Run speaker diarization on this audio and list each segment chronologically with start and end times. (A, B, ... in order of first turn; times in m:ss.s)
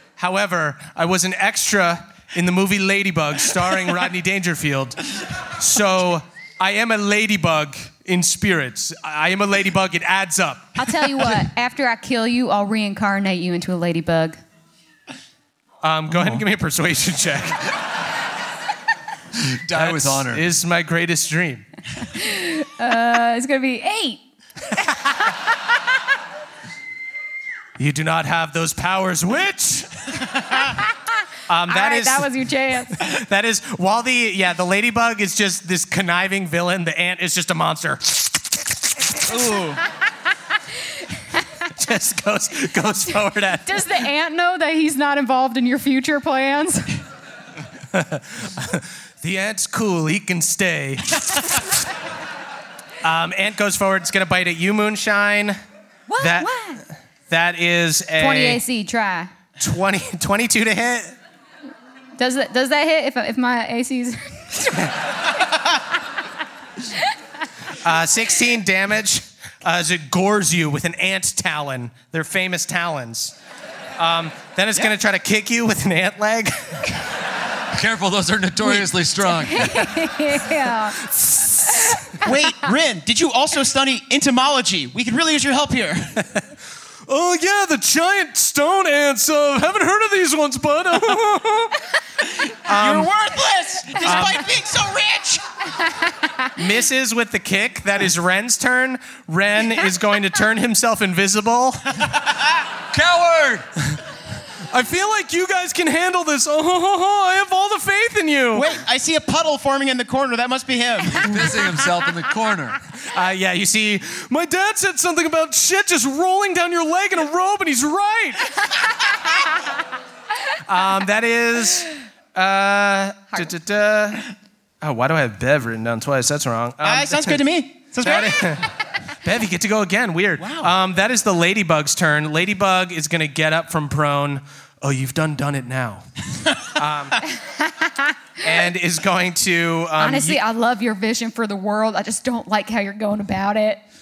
0:00.2-0:11.4 A
0:10.8-0:14.4 B
0:15.8-0:17.6 A
0:16.1-0:16.4 C
0:19.4-0:20.5 C
0:19.7-0:21.7 A
0:22.0-0:24.2 B
0:27.8-0:30.2 A
0:31.5-0:32.3 A
0:31.7-0:33.0 B
0:33.0-0:39.1 A
0:39.2-0:39.8 D
0:41.8-0:44.0 A
0:43.7-0:47.0 B
0:47.9-0:51.6 A
0:53.0-0:55.6 A
0:56.1-0:56.8 B
0:56.2-0:56.5 A
0:57.3-0:58.6 A
0:58.2-0:59.3 B
0:59.6-1:01.2 A
1:02.2-1:04.9 B
1:07.8-1:13.4 A
1:14.0-1:16.9 A
1:17.7-1:20.0 C
1:19.4-1:21.0 B
1:21.0-1:22.0 A
1:21.7-1:22.3 B
1:22.2-1:26.2 D
1:27.1-1:31.8 A
1:32.3-1:35.4 D
1:32.7-1:33.1 A
1:34.0-1:34.5 A
1:36.1-1:36.5 B
1:36.6-1:42.0 A
1:42.9-1:43.6 C
1:44.7-1:48.8 A
1:48.5-1:51.5 D
1:51.2-1:52.8 C
1:53.1-1:58.5 A
2:00.7-2:04.3 A
2:04.8-2:07.4 A
2:06.8-2:08.6 D
2:08.0-2:08.7 A
2:09.2-2:16.0 A
2:10.4-2:10.7 D
2:16.8-2:17.2 A
2:17.5-2:18.2 B
2:18.4-2:20.4 A
2:20.0-2:23.8 B